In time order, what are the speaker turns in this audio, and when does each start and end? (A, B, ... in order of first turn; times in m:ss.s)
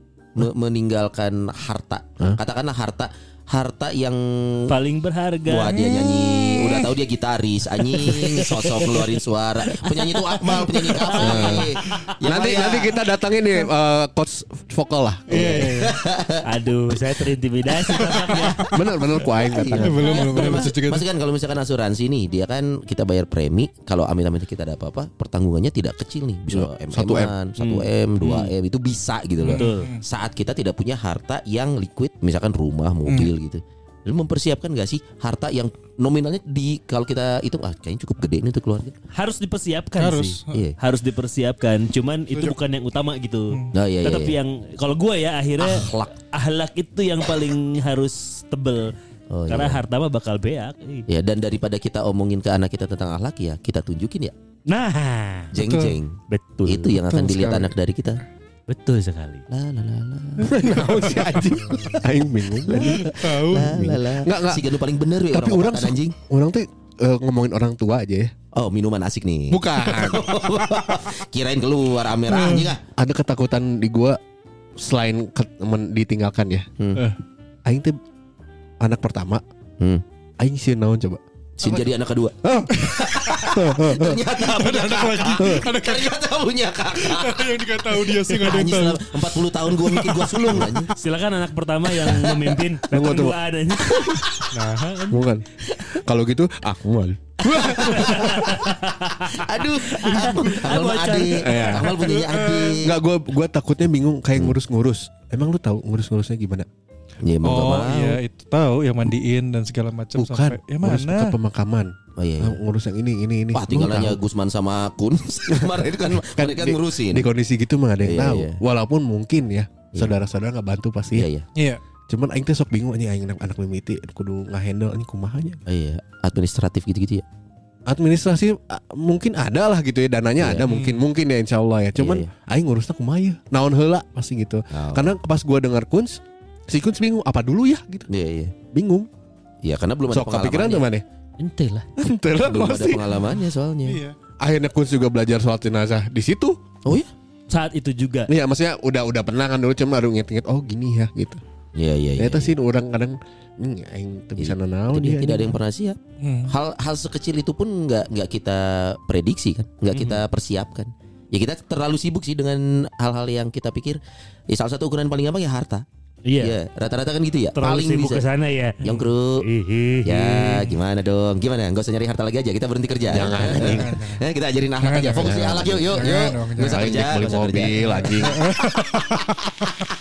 0:00.4-0:04.7 A
0:04.7-0:05.8 B
0:05.4-0:12.9 A
0:05.7-0:06.8 C
0:08.0-0:09.0 B
0:10.5-0:11.6 C
0:10.5-0:11.5 B
0:11.2-0:15.7 D
0:15.3-0:16.0 C
0:15.3-0:16.4 A
0:16.4-0:18.7 B
0:17.9-0:18.7 A
0:18.7-0:20.4 D
0:19.5-0:38.9 A
0:19.8-0:21.0 C
0:26.5-0:27.3 D
0:27.6-0:28.5 B
0:29.4-0:30.0 C
0:29.5-0:29.9 B
0:39.1-0:48.9 B
0:40.0-0:40.6 C
0:40.5-0:40.8 A
0:43.7-0:44.4 A
0:45.6-0:46.1 A
0:49.3-0:49.8 A
0:49.5-0:51.0 B
0:51.1-0:54.3 A
0:54.7-0:55.5 B
0:55.5-0:58.2 A
0:55.5-0:56.0 C
0:56.3-0:56.9 B
0:57.0-0:57.7 D
0:58.7-0:59.4 B
0:59.5-1:00.5 A
1:00.4-1:04.6 D
1:02.7-1:06.1 A
1:02.7-1:03.7 C
1:05.3-1:08.3 D
1:08.5-1:12.8 A
1:09.5-1:10.3 D
1:12.3-1:12.7 C
1:13.0-1:14.2 D
1:14.8-1:16.7 D
1:16.8-1:17.1 A
1:17.6-1:18.0 D
1:18.8-1:19.4 D
1:20.4-1:21.2 D
1:21.6-1:30.9 A
1:22.4-1:24.2 D
1:23.2-1:23.6 C
1:24.4-1:26.2 C
1:25.4-1:25.6 D
1:26.9-1:30.8 C
1:30.9-1:35.2 B
1:31.9-1:32.6 A
1:32.9-1:33.4 D
1:33.9-1:34.5 A
1:34.5-1:34.9 C
1:35.1-1:38.6 D
1:37.4-1:38.4 A
1:37.6-1:41.4 B
1:39.3-1:42.9 A
1:41.4-1:41.9 D
1:41.6-1:42.9 C
1:42.8-1:46.7 D
1:47.2-1:48.2 A
1:47.4-1:51.4 C
1:50.2-1:54.2 D
1:52.2-1:52.6 A
1:53.5-1:57.3 A
1:55.5-2:01.3 D
1:58.0-1:58.6 A
2:01.1-2:01.4 A
2:01.6-2:01.8 C
2:02.1-2:05.6 D
2:05.7-2:07.2 A
2:07.9-2:18.1 D
2:10.4-2:10.6 A
2:10.6-2:11.0 C
2:12.0-2:12.3 A
2:14.7-2:15.1 A
2:18.1-2:18.5 A
2:18.7-2:19.1 D
2:19.6-2:20.9 A
2:20.1-2:21.0 D
2:21.4-2:21.9 B
2:22.0-2:23.1 D
2:22.4-2:24.0 A
2:23.8-2:24.1 C
2:24.4-2:26.6 D
2:27.5-2:28.3 B
2:28.3-2:31.4 D
2:31.7-2:32.5 A
2:32.2-2:35.5 D
2:34.4-2:45.8 A
2:36.2-2:36.5 C
2:39.9-2:40.2 B
2:46.3-2:46.6 B
2:46.4-2:48.3 A
2:47.6-2:48.8 B
2:48.8-2:49.4 A
2:49.4-2:50.7 B
2:50.0-2:59.3 A
2:53.1-2:54.0 D
2:53.2-2:54.2 C
2:54.8-2:56.9 C
2:55.2-2:58.5 D
2:57.6-2:59.3 C